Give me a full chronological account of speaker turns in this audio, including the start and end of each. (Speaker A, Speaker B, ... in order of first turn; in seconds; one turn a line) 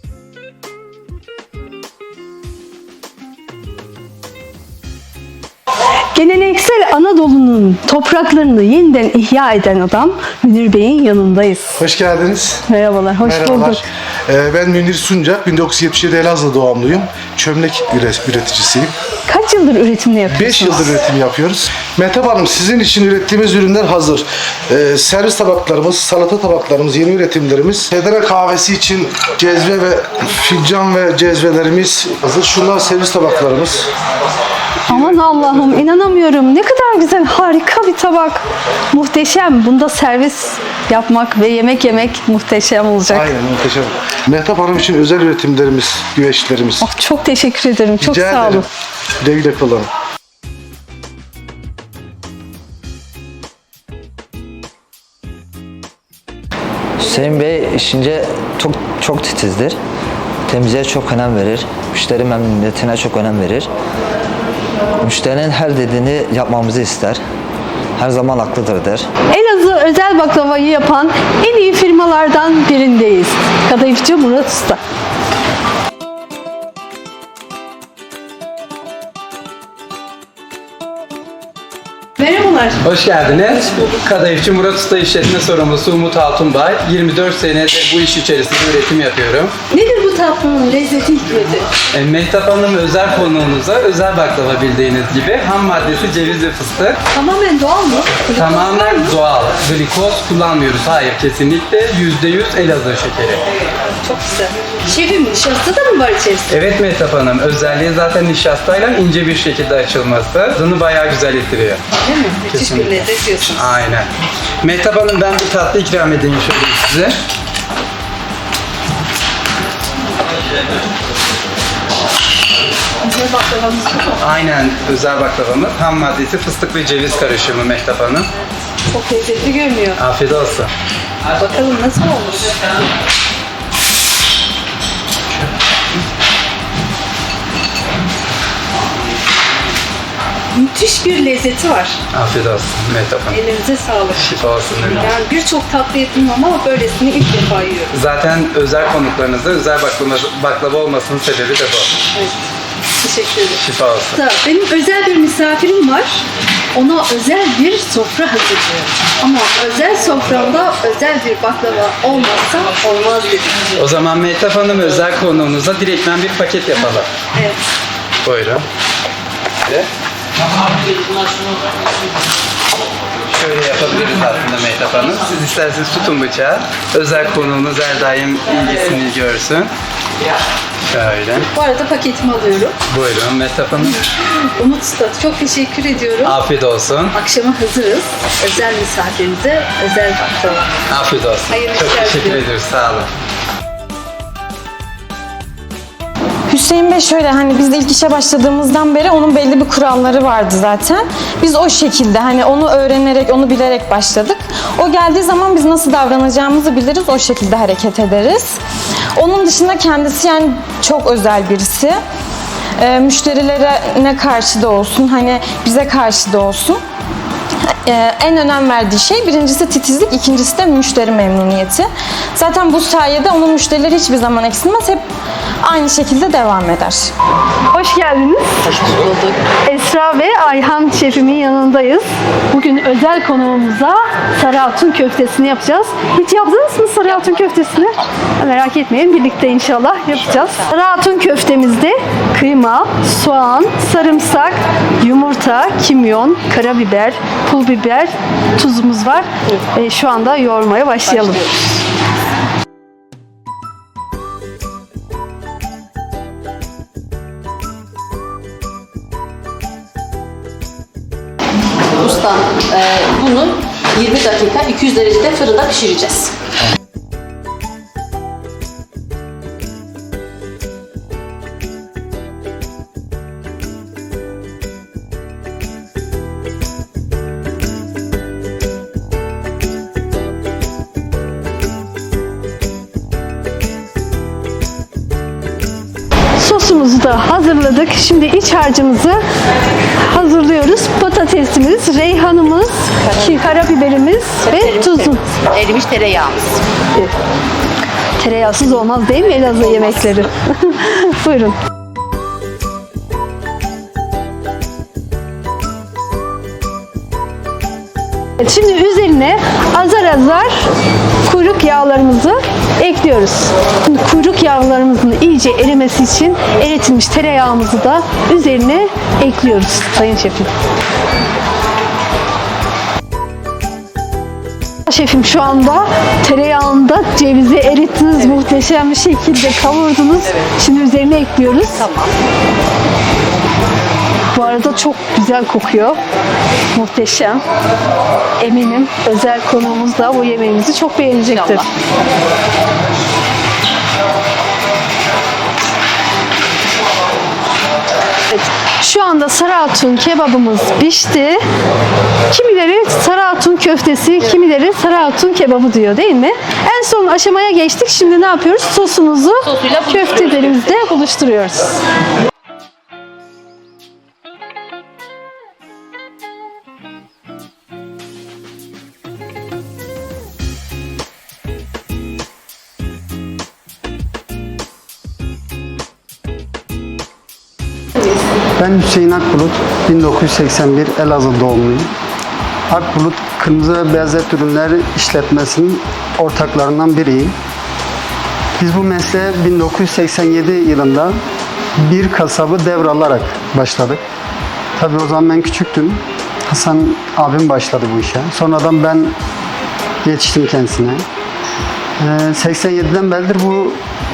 Speaker A: 6.1-11.7
Speaker B: 11.8-12.6
Speaker A: 12.7-13.8
Speaker B: 13.2-18.9
Speaker A: 19.3-20.9
Speaker B: 20.3-33.9
Speaker A: 34.9-43.3
Speaker B: 34.9-35.8
Speaker B: 43.1-46.9
Speaker A: 46.8-48.6
Speaker B: 48.0-48.6
Speaker B: 49.2-49.9
Speaker C: 57.0-59.8
Speaker C: 60.5-63.7
Speaker C: 65.0-67.2
Speaker C: 68.0-69.1
Speaker A: 69.3-74.8
Speaker A: 82.2-82.8
Speaker D: 82.8-89.5
Speaker A: 83.5-83.9
Speaker A: 89.7-91.7
Speaker D: 91.9-97.0
Speaker A: 97.1-99.2
Speaker D: 98.3-103.4
Speaker A: 103.8-106.5
Speaker D: 106.5-111.8
Speaker A: 112.0-113.8
Speaker D: 112.5-114.1
Speaker D: 114.6-117.1
Speaker A: 123.0-124.2
Speaker D: 124.2-128.3
Speaker A: 128.9-130.0
Speaker D: 130.0-130.7
Speaker A: 131.4-132.6
Speaker A: 140.5-142.0
Speaker D: 142.1-143.4
Speaker A: 143.3-144.3
Speaker D: 144.2-145.0
Speaker A: 144.9-147.9
Speaker D: 147.9-151.9
Speaker A: 152.1-152.4
Speaker A: 152.9-153.6
Speaker D: 153.6-154.2
Speaker A: 154.1-163.6
Speaker D: 163.8-167.1
Speaker A: 167.3-167.6
Speaker D: 168.2-168.6
Speaker D: 173.3-179.7
Speaker D: 180.9-181.4
Speaker A: 181.5-182.7
Speaker D: 182.9-183.9
Speaker A: 184.6-186.4
Speaker D: 186.2-187.1
Speaker A: 187.1-190.7
Speaker D: 190.9-193.1
Speaker A: 191.5-192.4
Speaker E: 196.5-208.6
Speaker E: 209.2-211.9
Speaker E: 212.8-216.8
Speaker E: 217.8-225.0
Speaker E: 225.6-227.1
Speaker A: 227.7-251.8
Speaker F: 262.0-266.3
Speaker A: 286.4-289.2
Speaker A: 290.0-295.3
Speaker F: 293.1-293.5
Speaker F: 294.4-296.6
Speaker A: 298.2-301.6
Speaker A: 308.4-310.6
Speaker A: 311.2-320.5
Speaker A: 324.9-331.9
Speaker F: 331.8-332.1
Speaker A: 334.3-336.0
Speaker A: 336.7-337.4
Speaker A: 338.4-341.7
Speaker F: 341.3-341.7
Speaker A: 348.3-351.4
Speaker A: 352.3-361.7
Speaker G: 378.6-381.9
Speaker G: 382.7-387.3
Speaker G: 388.6-391.2
Speaker G: 391.8-394.0
Speaker G: 394.8-399.2
Speaker G: 400.0-401.0
Speaker G: 402.0-403.8